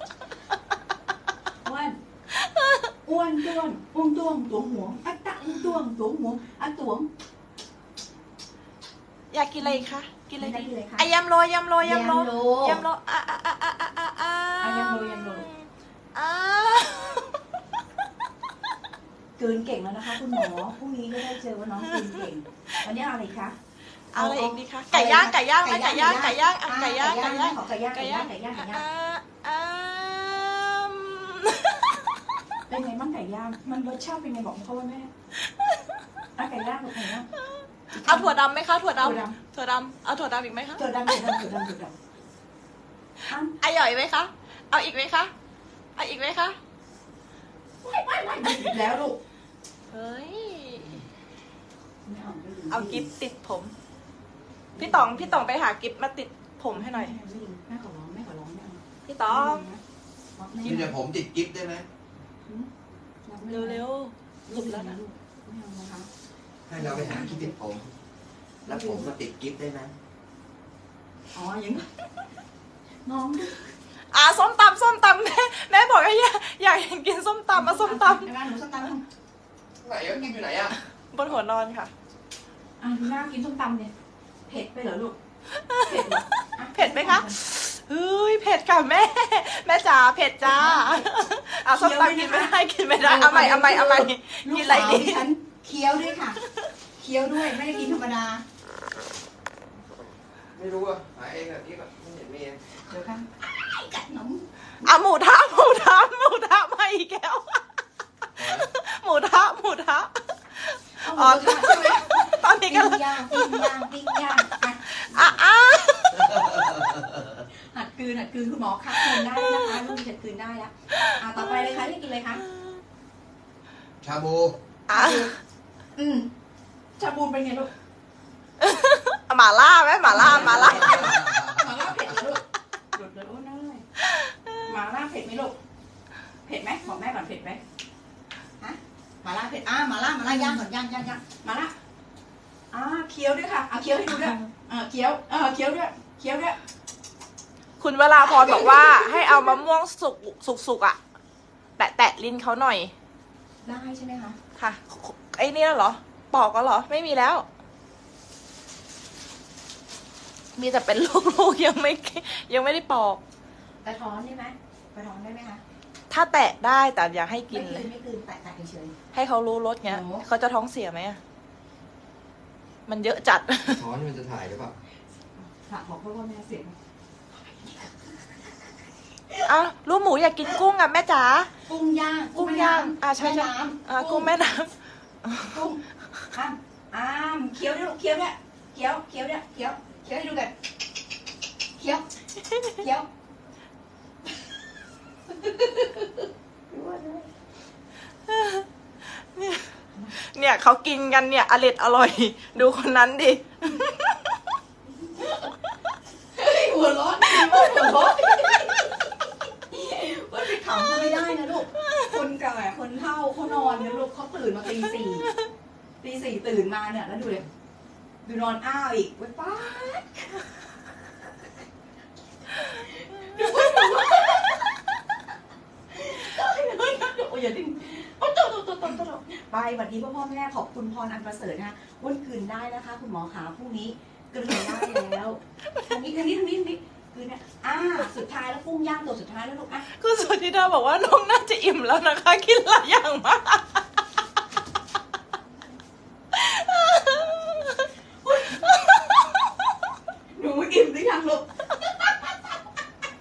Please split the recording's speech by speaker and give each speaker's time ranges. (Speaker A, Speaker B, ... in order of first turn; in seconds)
Speaker A: 1.6-2.0, 3.1-7.1, 9.6-11.1, 11.8-12.8, 14.6-15.5, 19.4-23.6, 24.2-28.8, 32.7-35.1, 36.4-37.3, 37.9-38.4, 39.0-39.4, 40.8-42.0, 43.3-43.6, 47.8-49.2, 52.1-53.1, 54.8-55.5, 56.7-59.8, 60.4-61.0, 63.2-63.9, 64.5-66.1, 66.7-67.6, 68.7-69.2, 71.3-71.9, 73.0-73.7, 77.5-79.0, 82.8-83.9, 84.5-85.2, 85.8-87.4, 90.4-91.1, 91.7-96.4, 97.0-98.4, 102.9-105.0, 111.0-115.3, 117.4-122.4, 124.9-125.3, 126.0-126.3, 127.0-127.7, 130.1-133.8, 134.7-135.5, 136.5-137.6, 138.6-141.7, 142.7-146.6, 148.3-149.6, 153.6-154.4, 163.8-165.6, 167.5-168.9, 169.9-170.3, 175.5-176.8, 177.3-178.5, 179.3-179.5, 181.7-184.3, 185.4-190.5, 191.8-192.1, 192.7-193.1, 195.3-197.3, 205.1-205.5, 206.3-215.3, 216.0-217.5, 218.2-220.5, 222.6-225.2, 225.9-239.8, 248.2-248.7, 250.3-252.5
Speaker B: 2.3-2.9, 9.3-17.4, 24.1-32.6, 35.4-35.9, 38.0-41.2, 43.6-45.3, 46.0-46.6, 48.5-48.7, 49.9-51.0, 52.7-53.7, 54.8-57.1, 59.1-59.7, 63.5-65.0, 74.1-78.3, 80.6-81.9, 85.5-86.2, 86.7-95.2, 104.8-107.8, 108.4-113.8, 114.8-116.6, 119.0-119.9, 121.0-121.8, 124.9-125.3, 128.6-131.3, 134.0-134.7, 147.8-151.0, 151.8-152.9, 154.6-157.5, 160.6-163.2, 166.1-167.9, 169.1-171.2, 172.9-173.8, 179.5-181.5, 182.3-184.7, 185.2-185.5, 192.5-192.8, 198.3-198.7, 199.3-204.4, 207.3-207.9, 223.3-223.8, 239.9-243.8, 246.3-247.9, 248.5-249.5
Speaker C: 60.6-61.9, 66.7-67.9, 68.7-70.0, 79.8-80.8, 100.5-102.6, 108.4-108.7, 124.0-124.6, 173.7-174.8